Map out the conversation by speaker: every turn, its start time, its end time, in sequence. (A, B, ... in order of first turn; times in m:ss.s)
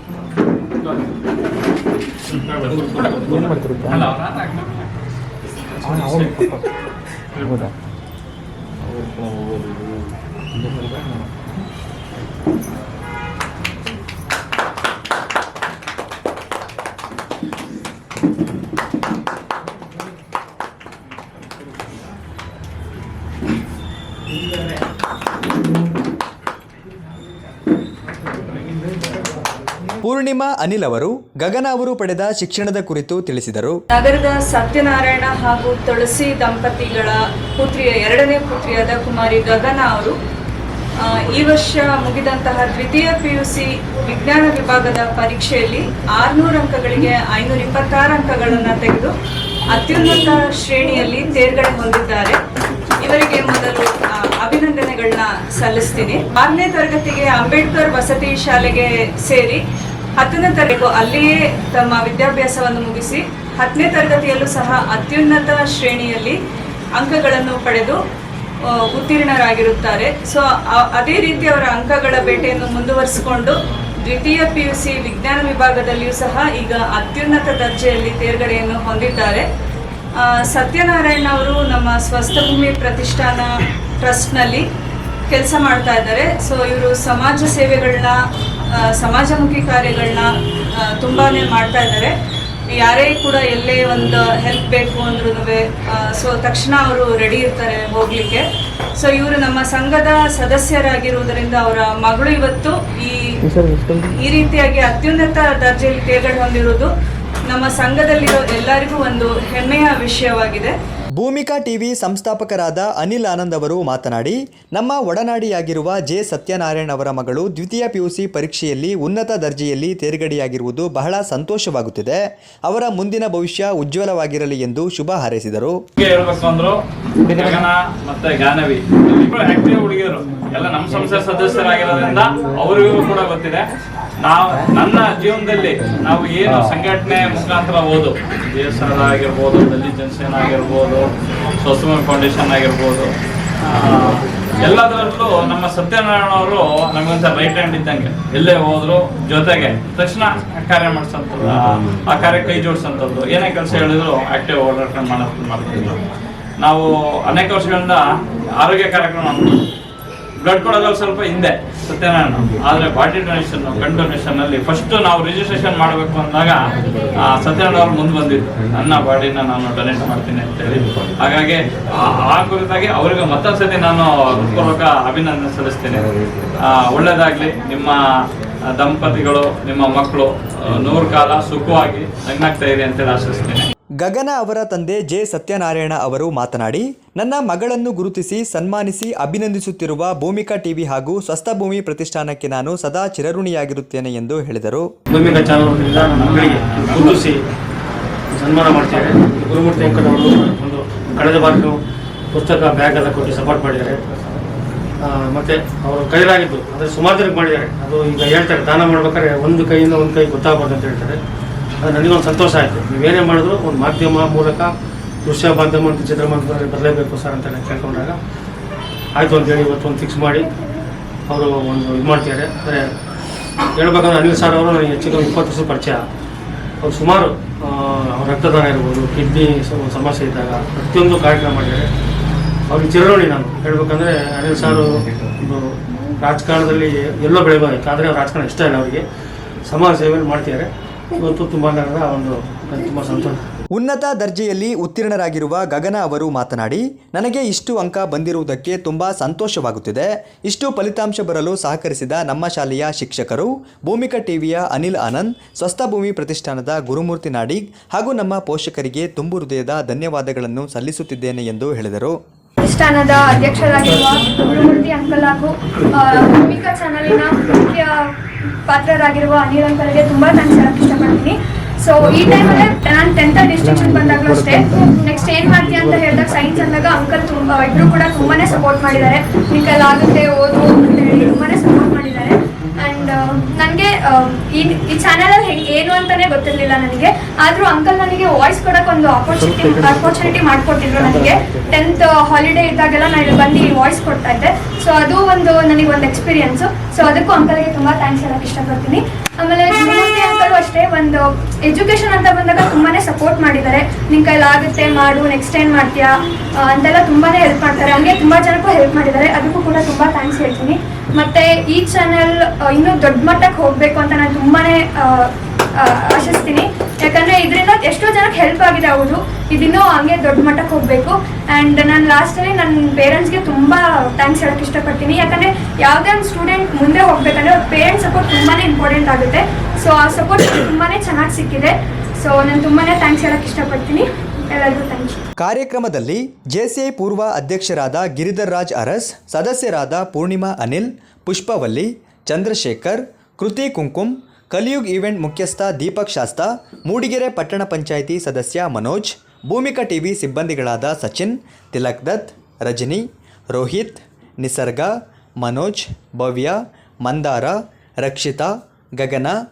0:02.3-0:03.6 A
0:03.4-0:04.1 B
0:03.8-0:04.8 C
0:05.9-0:06.5 C
0:05.9-0:06.5 B
0:07.4-0:07.7 B
0:09.2-0:09.7 B
0:10.6-0:11.2 B
0:30.0-0:33.8 D
0:33.9-0:40.2 E
0:41.0-0:49.1 E
0:49.7-0:52.4 E
0:53.0-0:59.6 E
1:00.2-1:06.4 E
1:07.0-1:08.0 E
1:08.6-1:19.5 E
1:20.2-1:23.5 E
1:24.0-1:24.6 E
1:25.3-1:32.1 E
1:32.8-1:38.4 E
1:39.0-1:43.3 E
1:43.5-1:44.0 B
1:44.0-1:46.9 E
1:47.5-1:50.7 E
1:51.2-2:05.8 D
2:06.0-2:13.7 C
2:14.2-2:36.0 C
2:36.6-2:38.0 C
2:38.6-2:39.6 C
2:40.4-2:58.0 C
2:58.8-3:03.7 C
3:04.0-3:14.8 D
3:15.1-3:17.4 A
3:18.3-3:21.8 A
3:22.3-3:24.0 A
3:25.0-3:31.2 A
3:31.8-3:34.7 A
3:35.2-3:38.2 A
3:39.1-3:40.5 A
3:41.3-3:42.9 A
3:43.8-3:46.0 A
3:46.8-3:51.9 A
3:52.7-3:59.0 A
3:59.6-4:03.4 A
4:03.7-4:22.2 D
4:22.6-4:28.1 F
4:28.7-5:35.2 F
4:33.8-4:34.5 B
4:36.0-4:36.5 B
5:35.4-5:59.4 D